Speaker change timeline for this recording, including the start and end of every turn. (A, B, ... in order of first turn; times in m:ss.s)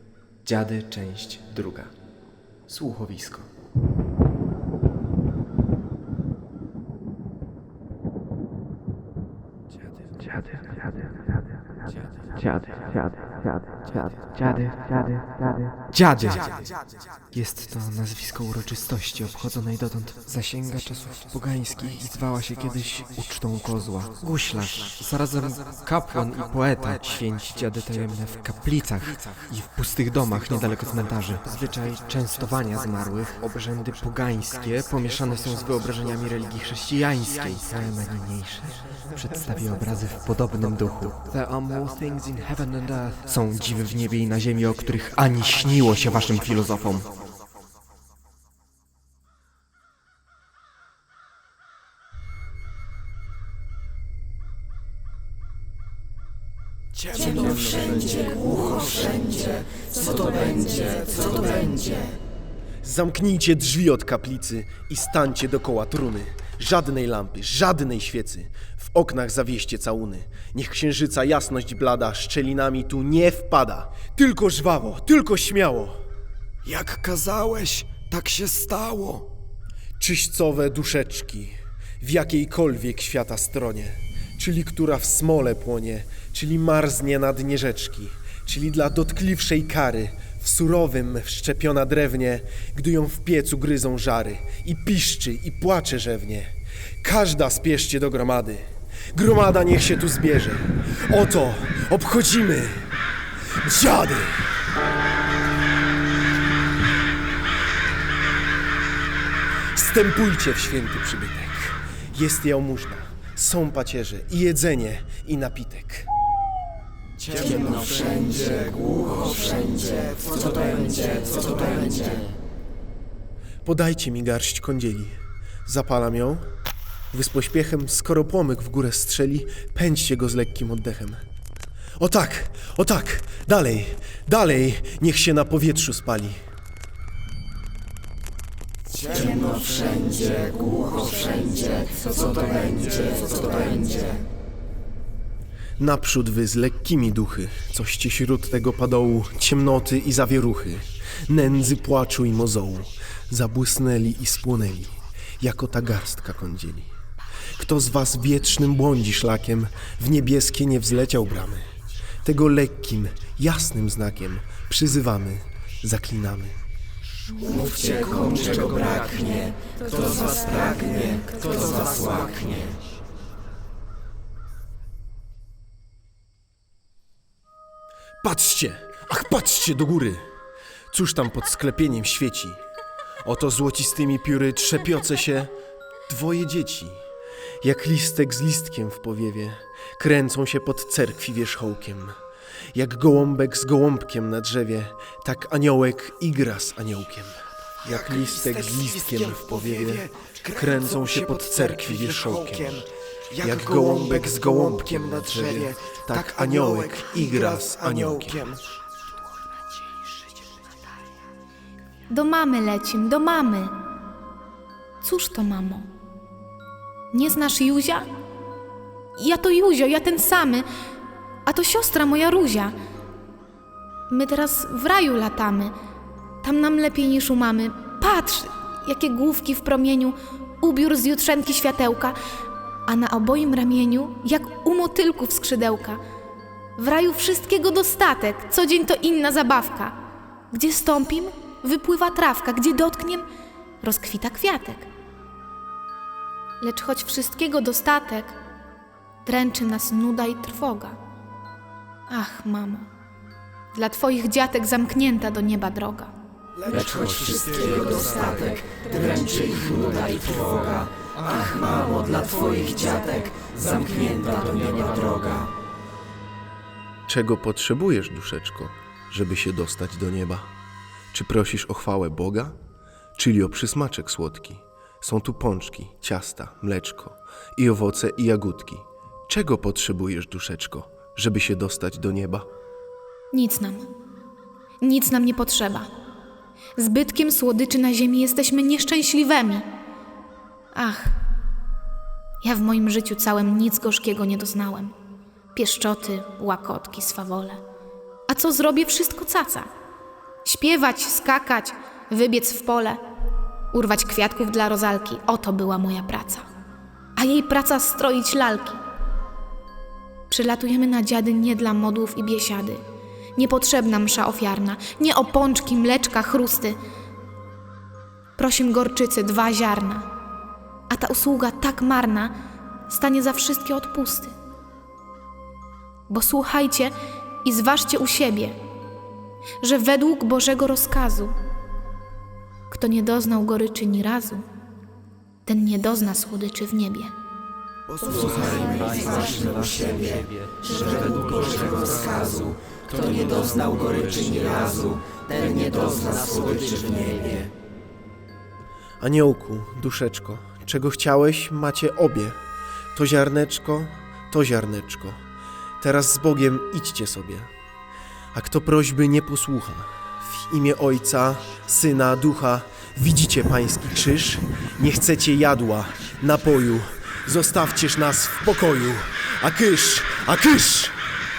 0:00.4-0:01.9 A
0:02.7-0:03.5 A
0:14.3-0:15.2 A
0:15.9-0:16.4 A
0:17.3-0:47.0 A
0:57.2-1:02.1 B
1:02.8-1:16.0 C
1:16.6-1:19.3 D
1:20.0-1:42.9 C
1:43.6-1:44.5 C
1:49.7-1:56.1 C
1:57.2-1:58.0 D
1:57.6-1:58.6 B
1:59.2-1:59.9 B
2:00.6-2:02.1 B
2:03.6-2:06.5 C
2:07.1-2:11.2 C
2:12.0-2:16.4 C
2:19.1-2:24.0 B
2:25.8-2:36.9 C
2:37.6-2:41.7 C
2:42.2-2:46.6 C
2:47.4-2:52.6 B
2:58.2-3:00.2 C
3:00.9-3:02.6 C
3:03.2-3:05.5 C
3:06.1-3:07.0 C
3:07.6-3:12.2 C
3:12.7-3:22.9 C
3:17.9-3:28.6 D
3:23.4-3:28.4 C
3:32.1-3:33.7 E
3:35.0-3:35.9 E
3:37.1-3:38.1 E
3:39.2-3:40.7 E
3:41.5-3:42.8 E
3:44.1-3:45.7 E
3:46.4-3:52.2 E
3:52.9-3:56.0 E
3:56.8-4:00.0 E
4:00.5-4:03.3 E
4:03.8-4:04.9 E
4:06.6-4:08.4 E
4:09.2-4:11.0 E
4:12.1-4:12.9 E
4:13.7-4:16.1 E
4:16.7-4:25.5 B
4:27.1-4:30.5 C
4:31.1-4:32.6 C
4:33.2-4:42.5 C
4:43.3-4:43.9 E
4:44.8-4:45.9 E
4:46.8-4:49.7 E
4:50.7-4:51.1 E
4:52.4-4:54.9 E
4:55.5-4:57.6 E
4:58.3-4:59.7 E
5:00.4-5:03.0 E
5:03.7-5:06.4 E
5:07.2-5:08.8 E
5:10.3-5:12.8 E
5:13.4-5:16.8 E
5:18.4-5:20.1 E
5:20.9-5:22.3 E
5:22.9-5:24.3 E
5:26.1-5:28.6 E
5:29.6-5:31.3 E
5:32.7-5:34.4 E
5:35.5-5:37.1 E
5:37.9-5:38.4 D
5:38.2-5:47.5 B
5:49.0-5:52.4 C
5:52.9-5:55.2 C
5:55.8-5:57.5 C
5:58.3-6:11.0 C